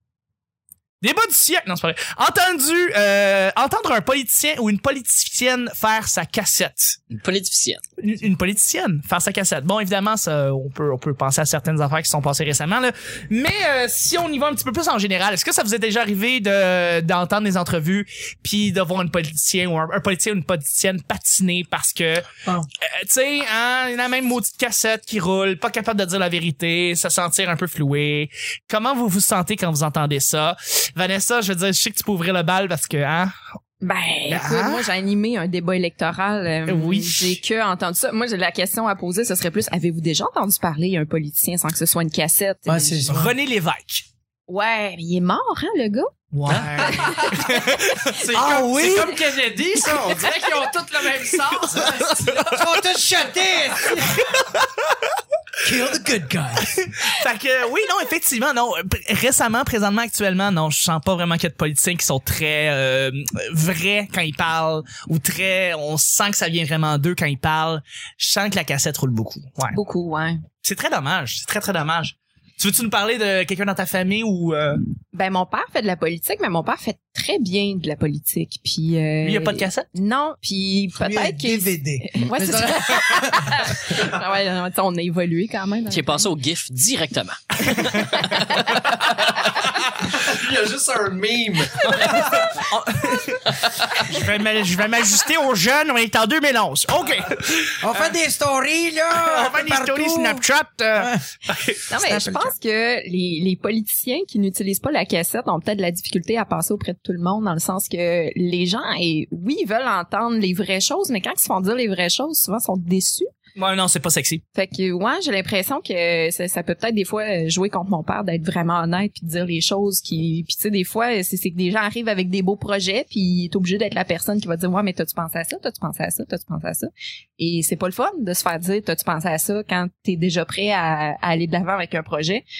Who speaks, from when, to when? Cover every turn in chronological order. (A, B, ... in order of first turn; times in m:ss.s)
0:01.0-0:07.0 A
0:07.1-0:07.8 B
0:08.0-0:22.2 A
0:22.8-0:33.3 A
0:33.8-0:43.1 C
0:34.3-0:34.8 A
0:36.7-0:37.4 A
0:42.6-0:43.3 D
0:43.1-0:44.0 A
0:44.5-0:48.1 C
0:46.3-0:49.2 A
0:46.5-0:47.4 E
0:48.1-0:52.4 E
0:48.8-0:49.1 C
0:51.4-0:52.6 A
0:51.9-0:54.4 D
0:53.9-0:54.9 A
0:55.6-0:56.8 D
0:56.7-1:09.8 A
1:09.7-1:10.4 C
1:10.6-1:14.8 A
1:15.1-1:26.3 C
1:19.2-1:19.9 A
1:21.0-1:23.8 D
1:25.9-1:28.5 B
1:28.2-1:28.8 C
1:29.5-1:32.5 E
1:32.2-1:38.1 A
1:37.8-1:41.2 D
1:39.1-1:41.8 A
1:41.9-1:53.3 C
1:42.0-1:42.5 D
1:53.6-1:54.4 A
1:54.5-2:12.4 C